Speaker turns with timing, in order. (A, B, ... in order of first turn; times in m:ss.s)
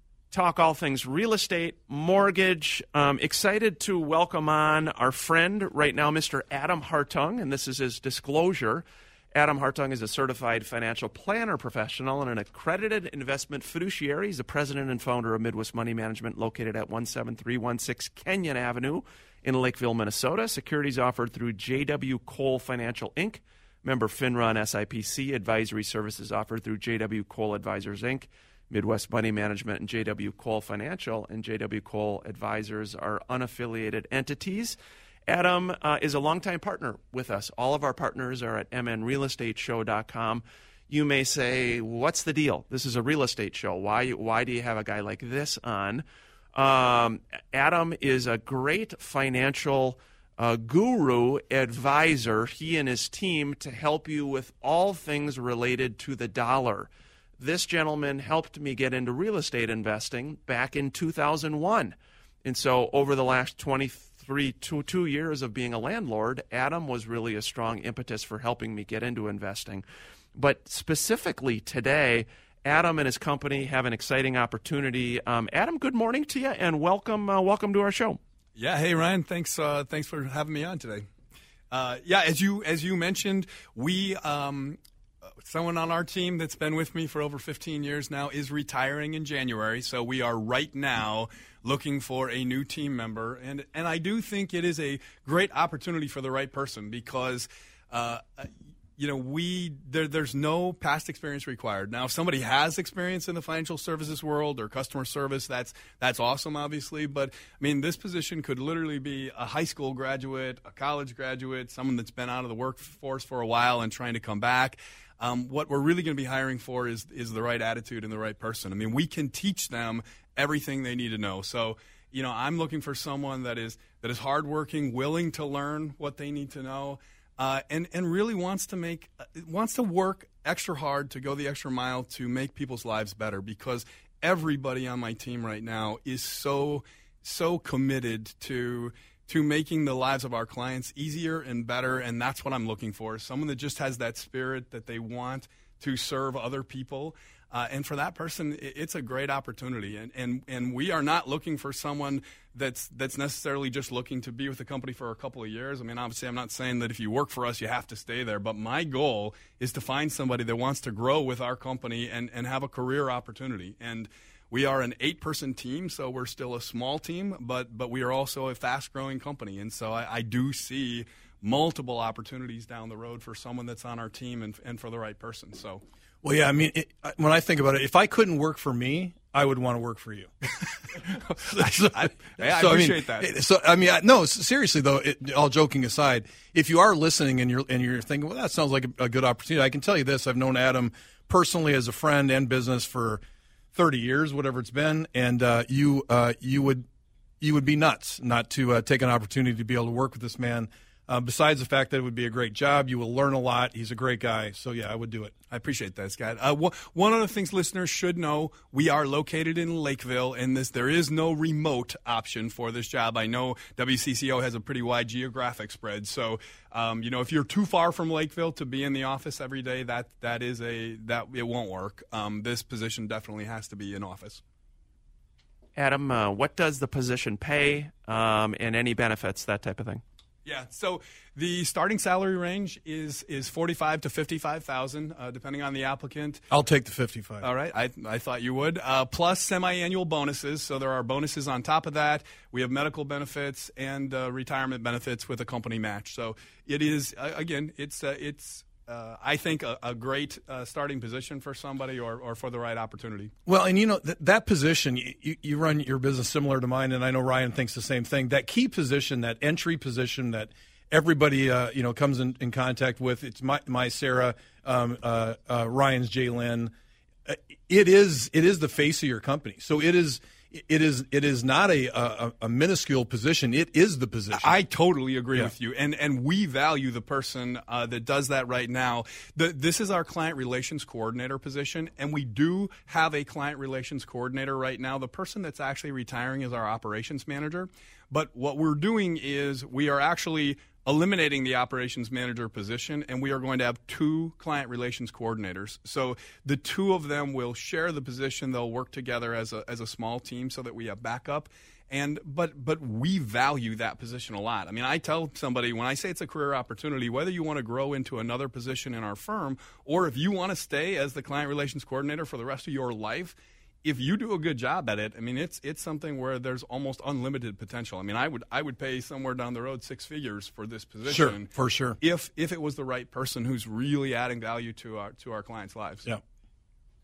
0:00.3-0:34.8 A
0:35.3-0:46.0 A
0:46.5-0:56.9 A
0:57.4-1:09.8 A
1:10.3-1:18.2 A
1:18.6-1:21.1 B
1:21.7-1:24.8 B
1:25.4-2:55.8 B
2:56.2-3:00.3 C
3:01.0-3:03.3 B
3:01.5-3:13.2 C
3:13.7-3:16.8 C
3:17.4-3:25.3 C
3:25.5-3:44.4 B
3:45.8-3:50.0 A
3:50.4-3:56.4 B
3:56.5-3:57.5 C
3:57.4-4:13.3 B
4:13.4-4:26.7 C
4:27.2-4:34.6 C
4:34.3-5:21.5 B
5:21.0-5:22.0 C
5:22.0-5:26.0 B